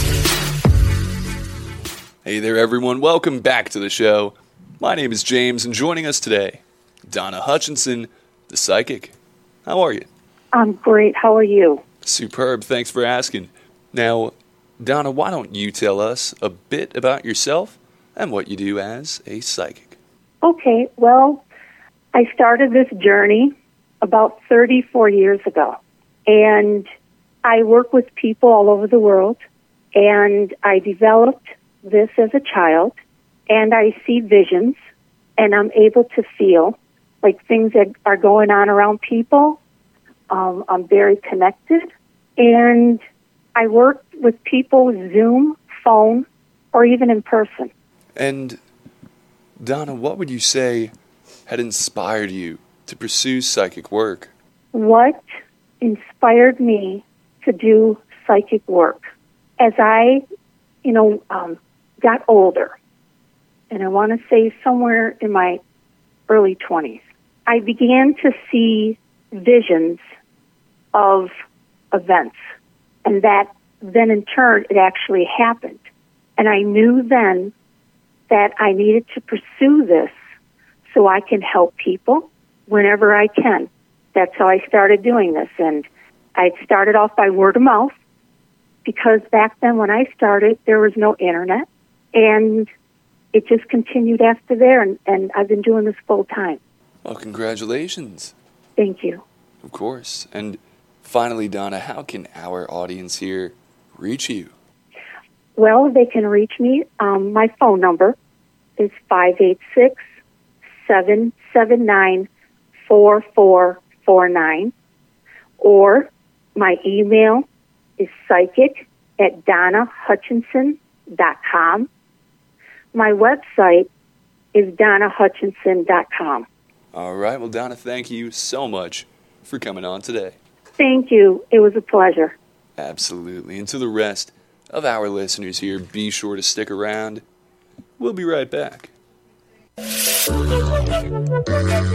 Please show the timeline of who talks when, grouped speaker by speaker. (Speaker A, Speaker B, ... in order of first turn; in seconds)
Speaker A: 2.2-9.2, 9.7-10.1, 12.0-20.0, 48.2-48.6, 49.6-50.9, 51.5-54.3, 97.0-98.3, 99.6-104.5, 126.9-130.4, 132.8-137.2, 138.0-138.9
Speaker B: 10.5-11.8, 20.4-21.4, 22.1-26.9, 27.4-29.4, 29.9-33.0, 33.5-34.8, 35.4-39.6, 40.3-43.0, 43.6-47.7, 54.7-55.2, 55.8-59.0, 59.6-60.2, 60.8-62.8, 63.7-65.6, 66.3-70.0, 70.9-71.3, 71.9-72.4, 73.0-75.8, 76.4-77.5, 78.3-80.1, 80.9-88.0, 88.8-92.7, 93.3-96.6, 98.8-99.2, 105.6-108.2, 108.8-110.0, 110.8-112.3, 112.9-114.7, 115.6-117.5, 118.0-121.9, 122.9-123.9, 124.5-126.5, 130.8-132.4